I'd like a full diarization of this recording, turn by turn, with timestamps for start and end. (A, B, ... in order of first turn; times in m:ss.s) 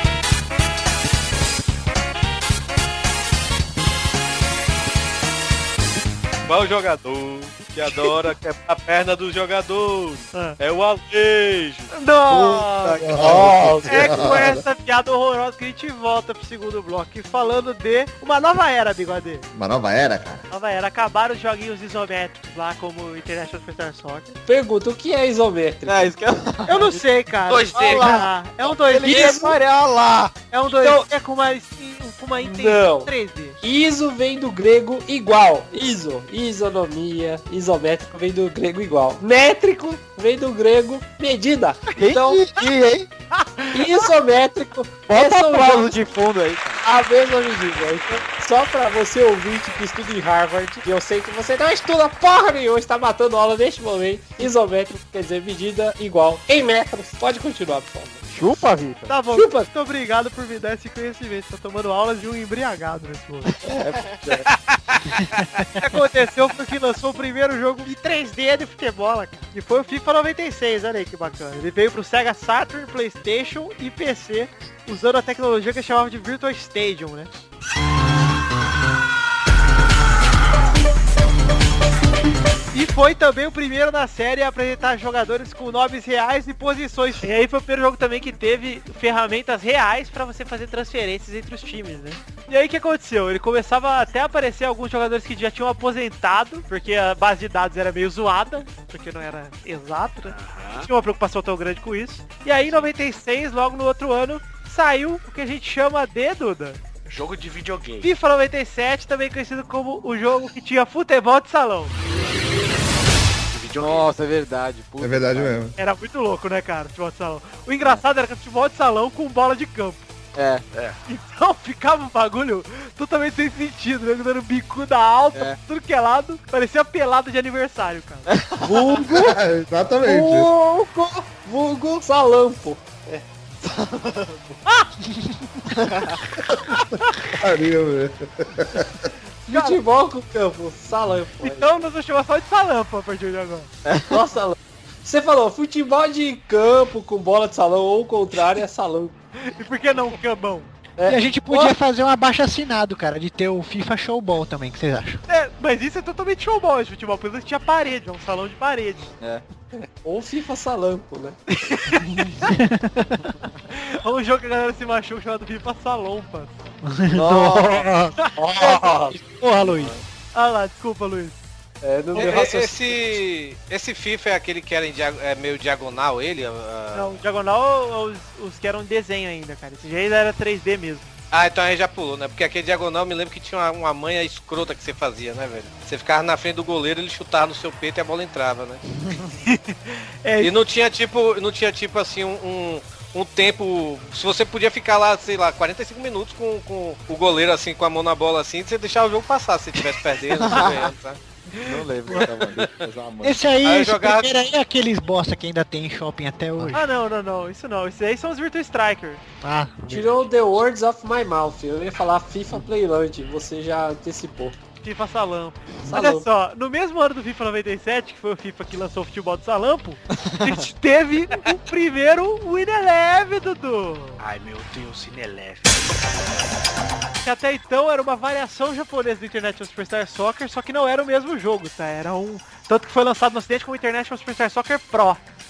0:06.5-0:11.9 A
0:10.3-0:10.6 B
0:11.9-0:13.1 B
0:12.3-0:14.6 C
0:13.2-0:14.4 D
0:13.4-0:13.8 E
0:13.8-0:19.5 B
0:19.5-0:20.5 C
0:20.5-0:24.4 B
0:24.5-0:26.1 E
0:25.8-0:27.0 D
0:26.7-0:29.5 B
0:27.5-0:28.1 F
0:27.8-0:30.3 D
0:29.0-0:29.6 E
0:30.5-0:33.6 B
0:30.8-0:31.0 E
0:32.4-0:42.5 E
0:41.9-0:43.1 D
0:43.3-0:44.1 B
0:43.7-0:46.0 E
0:45.1-0:46.8 D
0:46.8-0:58.2 E
0:58.3-0:59.2 D
0:59.1-1:03.6 B
0:59.3-0:59.7 E
1:03.7-1:04.5 D
1:05.8-1:17.3 B
1:22.7-1:46.8 B
1:40.3-1:40.9 F
1:47.1-1:48.1 F
1:48.0-1:51.9 B
1:53.5-1:54.1 F
1:53.8-1:55.6 D
1:55.0-1:55.8 C
1:55.8-2:00.1 B
2:00.4-2:00.6 D
2:00.7-2:01.0 F
2:01.1-2:08.3 B
2:08.3-2:08.8 D
2:08.6-2:09.4 E
2:08.8-2:10.5 C
2:10.0-2:12.9 E
2:13.1-2:14.4 D
2:14.7-2:15.3 B
2:15.8-2:16.1 D
2:16.5-2:19.1 C
2:19.5-2:21.7 E
2:19.5-2:19.8 B
2:21.4-2:23.7 B
2:23.9-2:24.2 D
2:24.1-2:29.2 E
2:29.4-2:30.7 B
2:31.0-2:31.8 E
2:31.1-2:35.2 G
2:35.3-2:39.1 B
2:39.8-2:41.4 E
2:41.5-2:42.5 B
2:42.5-2:43.2 G
2:43.4-2:46.6 B
2:46.8-2:49.9 G
2:47.2-2:47.5 E
2:47.5-2:47.8 D
2:48.2-2:48.8 B
2:48.4-2:49.9 E
2:50.3-2:51.4 B
2:51.8-2:53.2 E
2:52.2-2:57.2 A
2:56.9-3:01.1 B
3:01.3-3:08.8 A
3:09.5-3:10.5 B
3:10.4-3:21.2 A
3:20.4-3:20.9 D
3:21.5-3:23.4 D
3:23.2-3:26.8 G
3:23.6-3:24.3 A
3:26.7-3:29.2 B
3:29.4-3:30.1 G
3:29.8-3:34.6 E
3:34.8-3:44.2 B
3:35.9-3:36.3 E
3:44.2-3:46.0 F
3:47.2-3:55.2 B